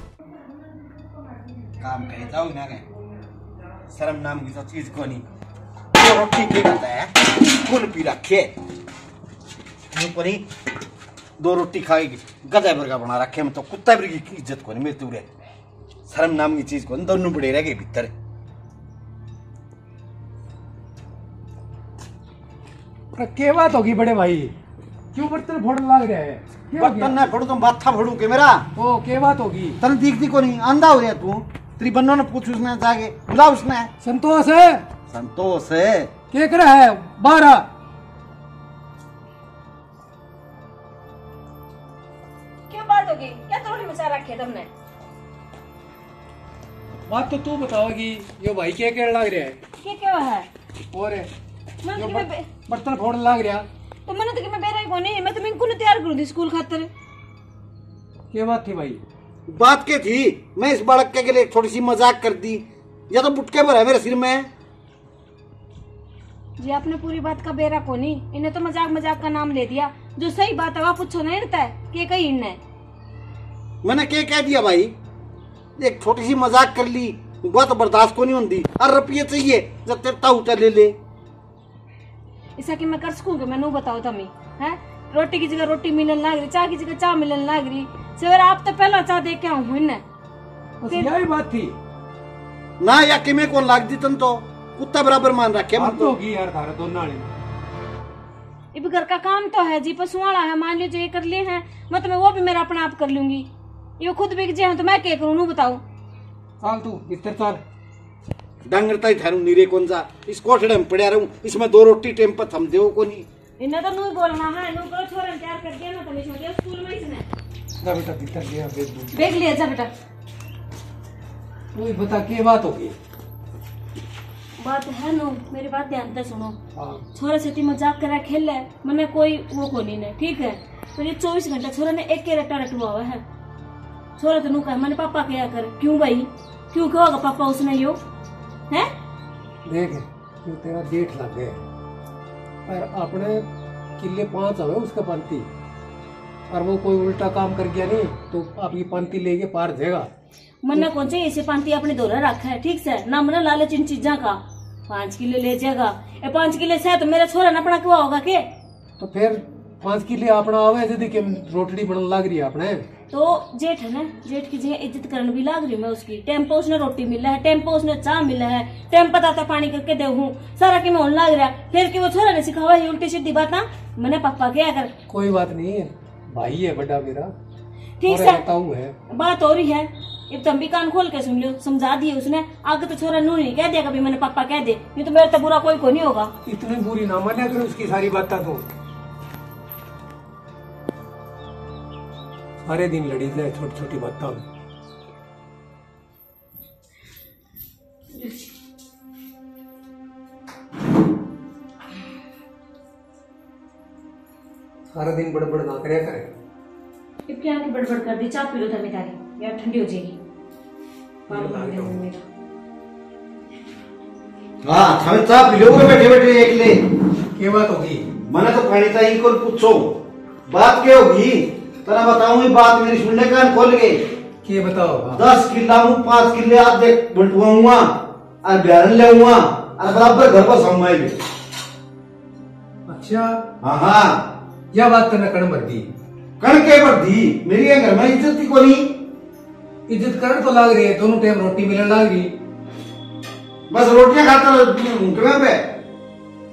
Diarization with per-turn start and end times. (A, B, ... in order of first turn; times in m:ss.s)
0:01.8-0:02.8 A
0:03.9-0:05.2 A
0:05.9-0:08.5 A
0:09.9-0:10.4 A
0:11.4-0:15.3 A
0:16.1-0:18.1 A
0:23.1-0:24.5 B
0:25.1-0:27.1 B
0:26.8-0:28.6 A
0:28.8-0:29.8 B
0:29.8-0:33.9 A
0:34.0-0:34.8 B
0:35.1-0:36.1 A
0:36.3-0:37.6 B
0:42.7-0:44.7 C
0:47.1-0:49.6 B
0:49.8-0:50.5 C
0:50.9-0:51.3 B
0:51.8-0:52.4 C
0:51.9-0:53.6 B
0:54.0-0:56.9 C
0:58.3-0:59.0 B
0:59.5-1:04.5 A
1:06.6-1:12.6 C
1:13.8-1:14.9 A
1:15.8-1:20.9 A
1:22.6-1:30.0 C
1:30.8-1:31.7 B
1:32.8-1:36.1 A
1:35.8-1:37.3 B
1:38.7-1:43.5 C
1:44.0-1:45.8 C
1:46.6-1:47.6 B
1:48.6-1:53.2 A
1:53.6-1:57.3 C
1:57.8-1:59.3 B
1:59.1-1:59.9 C
2:01.7-2:02.9 B
2:04.6-2:06.6 C
2:06.7-2:07.0 B
2:07.1-2:13.2 C
2:14.2-2:18.0 C
2:19.6-2:21.6 B
2:22.6-2:23.4 B
2:24.0-2:25.5 B
2:26.5-2:30.1 B
2:30.6-2:38.4 C
2:39.0-2:42.8 B
2:43.1-2:54.9 C
2:55.1-2:57.3 B
2:58.0-2:58.4 C
2:58.0-2:58.9 B
2:59.1-3:06.3 C
3:06.4-3:08.6 B
3:12.6-3:14.4 B
3:18.1-3:18.4 C
3:24.9-3:26.3 B
3:27.3-3:30.2 C
3:31.3-3:31.9 B
3:31.3-3:32.2 C
3:34.6-3:36.8 A
3:37.4-3:38.0 B
3:38.3-3:39.9 A
3:40.5-3:44.0 A
3:44.4-3:45.2 B
3:45.1-3:47.9 A
3:48.4-3:51.1 A
3:52.9-3:53.3 B
3:53.6-3:54.2 A
3:54.7-3:55.8 B
3:56.4-3:58.8 A
3:59.9-4:02.3 B
4:03.7-4:05.6 A